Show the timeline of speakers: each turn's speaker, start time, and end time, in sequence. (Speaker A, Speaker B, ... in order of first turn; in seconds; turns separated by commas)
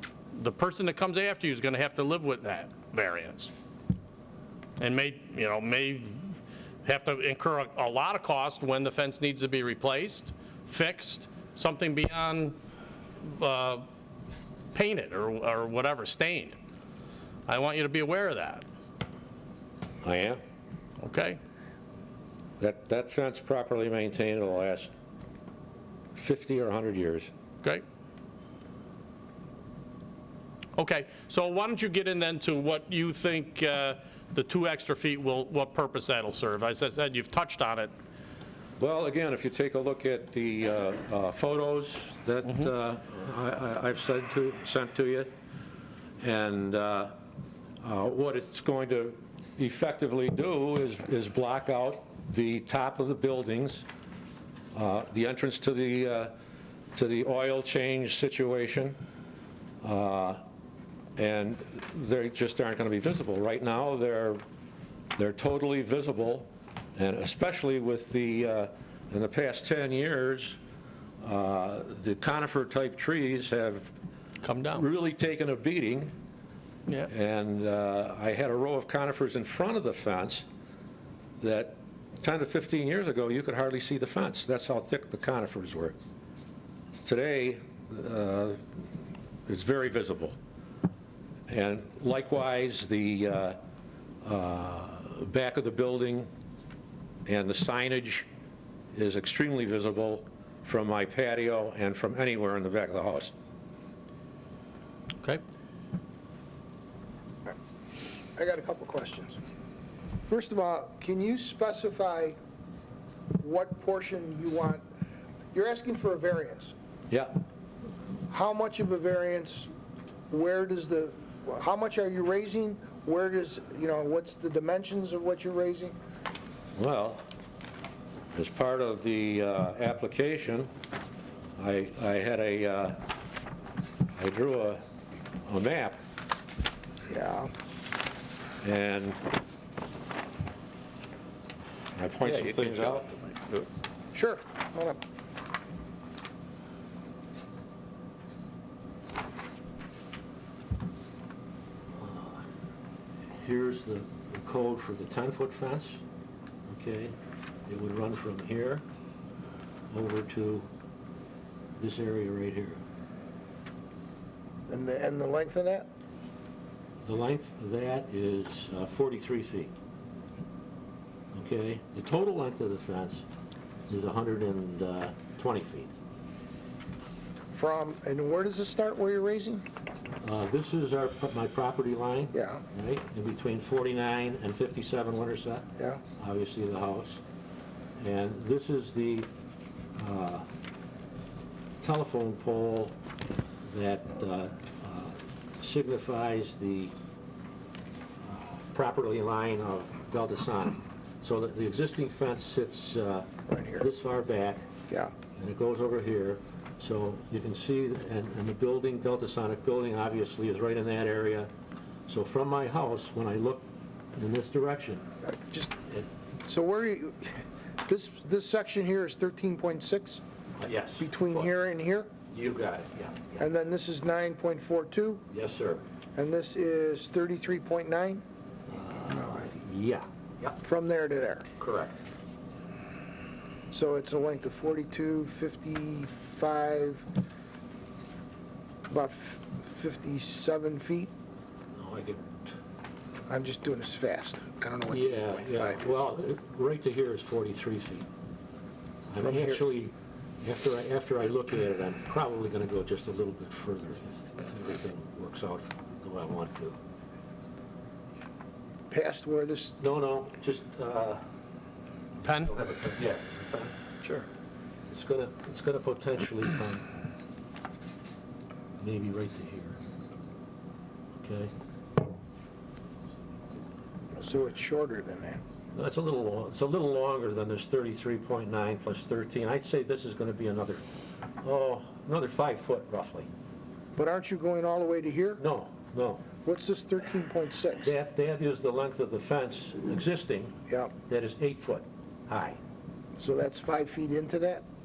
Speaker A: 0.3-3.5, Speaker A: 4.8-12.6, Speaker A: 13.2-13.9, Speaker A: 14.7-16.6, Speaker A: 17.5-18.7, Speaker B: 20.0-20.4, Speaker A: 21.0-21.4, Speaker B: 22.6-24.9, Speaker B: 26.2-27.3, Speaker A: 30.8-37.9, Speaker B: 38.8-45.3, Speaker B: 46.2-47.1, Speaker B: 47.8-53.9, Speaker B: 54.7-56.3, Speaker B: 56.9-59.0, Speaker B: 59.8-60.4, Speaker B: 61.2-64.4, Speaker B: 65.2-70.6, Speaker B: 71.2-73.9, Speaker A: 74.4-74.8, Speaker B: 74.7-76.1, Speaker B: 77.1-80.5, Speaker B: 81.4-86.0, Speaker B: 87.0-88.6, Speaker B: 89.5-90.4, Speaker B: 91.5-93.6, Speaker B: 94.2-96.3, Speaker B: 97.3-98.3, Speaker B: 98.9-103.3, Speaker C: 108.4-109.4, Speaker C: 110.3-112.4, Speaker C: 113.4-114.8, Speaker C: 115.5-116.7, Speaker C: 118.3-119.7, Speaker C: 120.3-126.0, Speaker B: 126.8-127.2, Speaker B: 128.3-130.7, Speaker B: 131.6-133.0, Speaker B: 134.1-134.8, Speaker B: 135.5-136.0, Speaker C: 137.1-137.5, Speaker B: 138.6-139.2, Speaker B: 141.9-143.1, Speaker C: 144.1-145.0, Speaker B: 151.9-152.4, Speaker B: 153.4-156.0, Speaker B: 156.7-157.1, Speaker B: 157.7-158.8, Speaker B: 159.9-160.7, Speaker B: 161.8-162.8, Speaker C: 164.7-165.9, Speaker B: 167.0-169.7, Speaker B: 171.3-173.2, Speaker B: 173.9-175.9, Speaker C: 177.5-179.7, Speaker B: 180.2-185.7, Speaker C: 182.3-182.6, Speaker B: 186.2-187.2, Speaker B: 188.0-189.3, Speaker B: 190.0-190.5, Speaker B: 191.8-192.9, Speaker B: 193.7-196.9, Speaker B: 198.3-204.6, Speaker C: 203.5-203.9, Speaker B: 205.3-211.5, Speaker B: 212.1-215.1, Speaker C: 215.2-215.8, Speaker C: 216.5-220.2, Speaker B: 220.6-221.5, Speaker C: 221.0-222.1, Speaker B: 222.3-223.5, Speaker C: 223.4-225.2, Speaker B: 225.3-225.8, Speaker C: 226.2-228.2, Speaker B: 228.7-230.6, Speaker C: 229.1-229.5, Speaker C: 230.6-231.5, Speaker B: 231.6-232.0, Speaker C: 233.7-237.1, Speaker C: 238.9-241.1, Speaker B: 241.8-242.5, Speaker C: 243.3-246.0, Speaker B: 244.9-248.1, Speaker B: 249.1-256.8, Speaker C: 249.2-249.6, Speaker C: 258.9-259.8, Speaker B: 259.8-261.2, Speaker A: 262.2-262.5, Speaker B: 262.4-263.7, Speaker C: 264.0-264.3, Speaker B: 264.9-266.9, Speaker B: 268.8-269.8, Speaker B: 271.2-271.5, Speaker C: 274.2-275.4, Speaker B: 275.7-280.8, Speaker B: 281.4-283.3, Speaker C: 283.9-285.4, Speaker B: 285.4-286.3, Speaker C: 286.4-287.9, Speaker B: 287.8-290.6, Speaker B: 291.1-292.6, Speaker C: 293.2-294.6